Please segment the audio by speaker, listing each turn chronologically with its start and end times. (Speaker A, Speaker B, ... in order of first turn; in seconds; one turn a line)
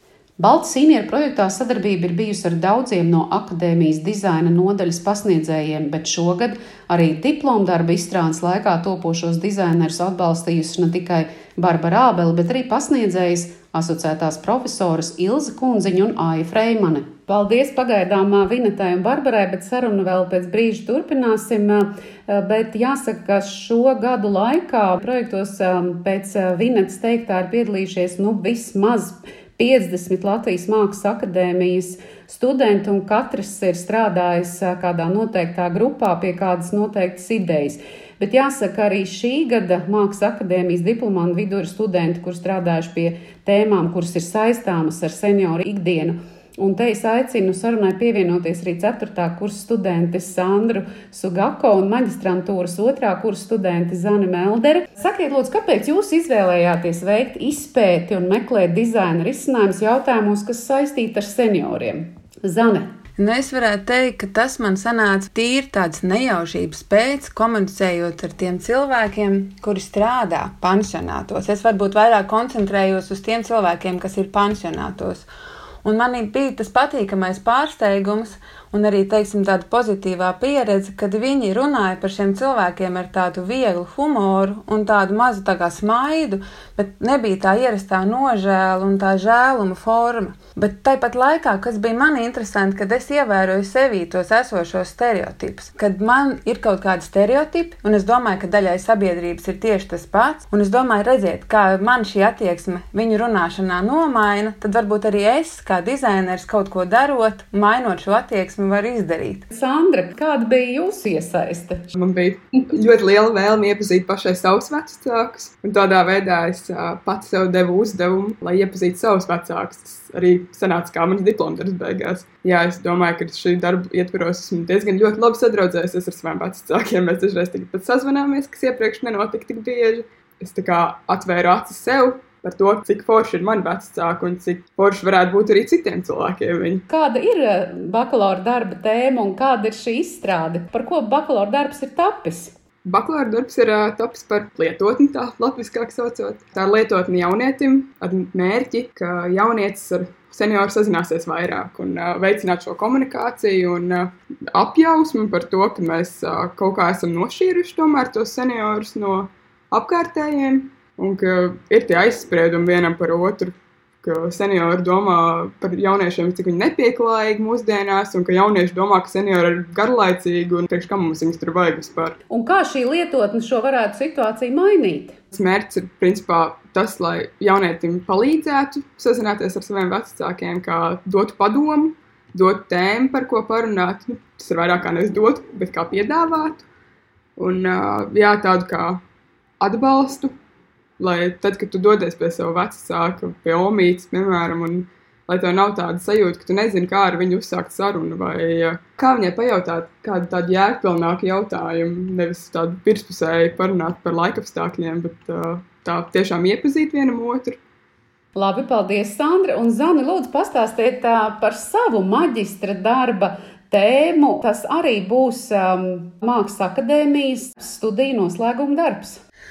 Speaker A: 0.4-62.9
Speaker B: 63.2-75.3
Speaker B: 75.8-109.5
Speaker A: 109.5-111.9
Speaker C: 112.0-136.8
Speaker A: 136.9-142.5
Speaker C: 142.8-172.2
Speaker A: 172.3-175.2
Speaker C: 175.3-186.6
Speaker C: 187.4-189.0
Speaker C: 189.6-190.3
Speaker C: 191.0-207.6
Speaker A: 208.3-219.2